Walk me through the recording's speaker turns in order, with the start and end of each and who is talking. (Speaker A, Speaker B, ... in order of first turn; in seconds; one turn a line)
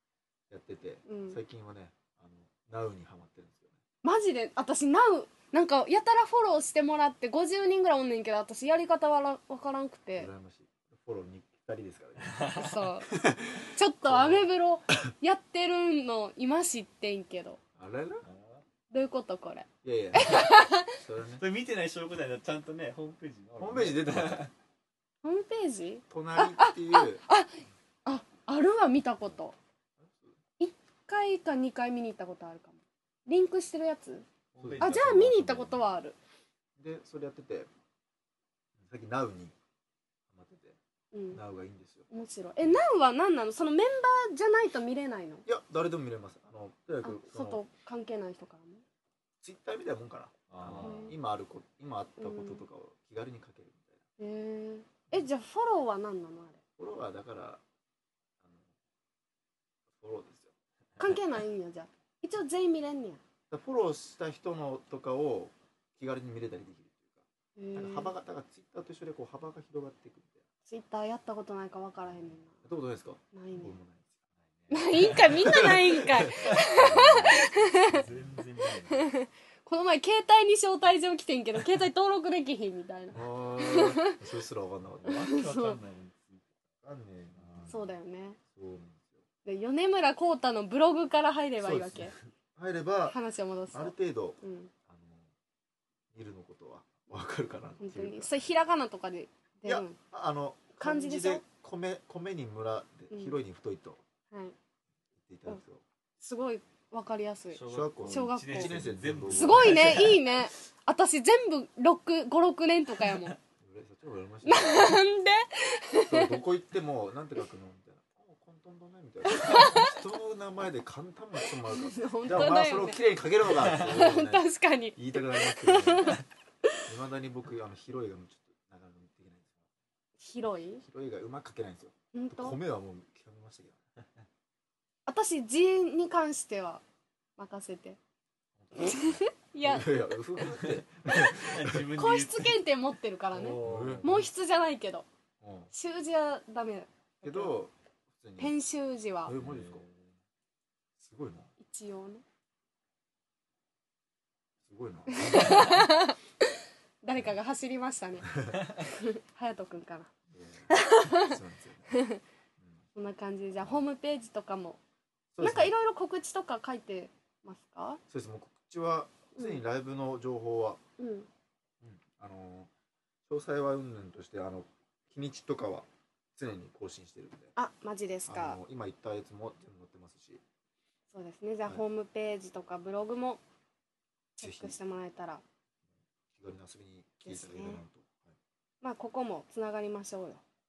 Speaker A: 0.5-3.8
Speaker B: 1.1-1.4
Speaker B: 4.0-10.3
Speaker A: 10.2-12.5
Speaker C: 12.2-12.7
Speaker B: 12.6-13.1
Speaker A: 13.1-14.5
Speaker B: 13.7-17.6
Speaker A: 17.8-18.3
Speaker C: 18.2-18.6
Speaker B: 18.9-20.9
Speaker A: 19.8-21.4
Speaker C: 21.4-24.5
Speaker A: 23.6-24.5
Speaker B: 25.2-29.5
Speaker A: 26.1-27.2
Speaker A: 30.0-30.3
Speaker B: 30.6-34.2
Speaker C: 34.5-35.9
Speaker A: 34.6-35.0
Speaker B: 34.8-36.2
Speaker A: 36.8-37.7
Speaker A: 38.8-39.5
Speaker A: 40.3-40.8
Speaker B: 41.1-41.4
Speaker A: 41.3-42.1
Speaker B: 42.1-45.4
Speaker A: 45.5-47.6
Speaker B: 47.0-48.8
Speaker A: 49.4-54.0
Speaker C: 50.5-51.1
Speaker B: 50.8-51.1
Speaker B: 52.2-52.6
Speaker B: 54.2-56.6
Speaker A: 56.8-57.6
Speaker A: 58.4-58.7
Speaker A: 59.9-60.5
Speaker B: 61.0-63.2
Speaker A: 63.5-70.4
Speaker B: 67.5-68.1
Speaker B: 70.7-72.6
Speaker A: 72.6-74.1
Speaker B: 73.3-73.7
Speaker C: 74.6-75.5
Speaker B: 74.7-78.0
Speaker A: 75.3-77.5
Speaker C: 76.3-79.1
Speaker B: 78.8-84.2
Speaker A: 83.1-85.2
Speaker C: 85.0-86.6
Speaker B: 85.2-85.8
Speaker A: 86.8-87.7
Speaker C: 87.3-87.9
Speaker B: 87.7-88.4
Speaker A: 88.5-89.2
Speaker B: 89.4-92.1
Speaker A: 91.6-93.2
Speaker B: 93.1-94.7
Speaker A: 93.7-95.3
Speaker A: 96.1-98.3
Speaker B: 97.8-100.0
Speaker A: 99.6-104.0
Speaker B: 100.8-101.4
Speaker B: 103.1-103.4
Speaker A: 105.2-105.8
Speaker B: 106.2-108.7
Speaker C: 107.5-110.4
Speaker A: 107.7-110.1
Speaker B: 109.3-113.4
Speaker A: 113.6-115.0
Speaker B: 114.4-116.4
Speaker A: 116.1-126.2
Speaker B: 119.3-119.9
Speaker B: 121.7-123.0
Speaker B: 123.7-126.8
Speaker A: 126.8-129.6
Speaker B: 130.2-130.8
Speaker A: 130.8-133.8
Speaker B: 132.1-132.6
Speaker B: 135.1-136.8
Speaker B: 137.4-138.0
Speaker A: 138.6-141.9
Speaker B: 138.7-139.9
Speaker C: 140.5-142.6
Speaker B: 141.9-145.1
Speaker C: 143.3-144.2
Speaker A: 143.6-144.3
Speaker A: 145.4-145.7
Speaker B: 145.7-147.5
Speaker A: 147.2-148.5
Speaker B: 148.4-149.3
Speaker A: 149.2-149.8
Speaker C: 149.4-150.1
Speaker A: 151.0-151.5
Speaker B: 151.6-152.2
Speaker A: 154.6-155.8
Speaker B: 155.1-156.2
Speaker B: 157.0-160.1
Speaker A: 160.3-162.0
Speaker B: 160.7-161.3
Speaker B: 161.9-162.2
Speaker A: 162.6-162.8
Speaker B: 162.9-164.8
Speaker A: 165.3-165.7
Speaker B: 165.4-168.0
Speaker A: 168.1-170.8
Speaker B: 169.3-169.6
Speaker B: 171.0-171.3
Speaker A: 171.8-172.7
Speaker A: 173.3-177.5
Speaker B: 177.6-178.6
Speaker A: 178.3-180.4
Speaker B: 181.1-183.4
Speaker B: 184.4-185.4
Speaker A: 184.4-184.8
Speaker A: 186.3-188.4
Speaker B: 187.2-187.8
Speaker B: 188.8-190.4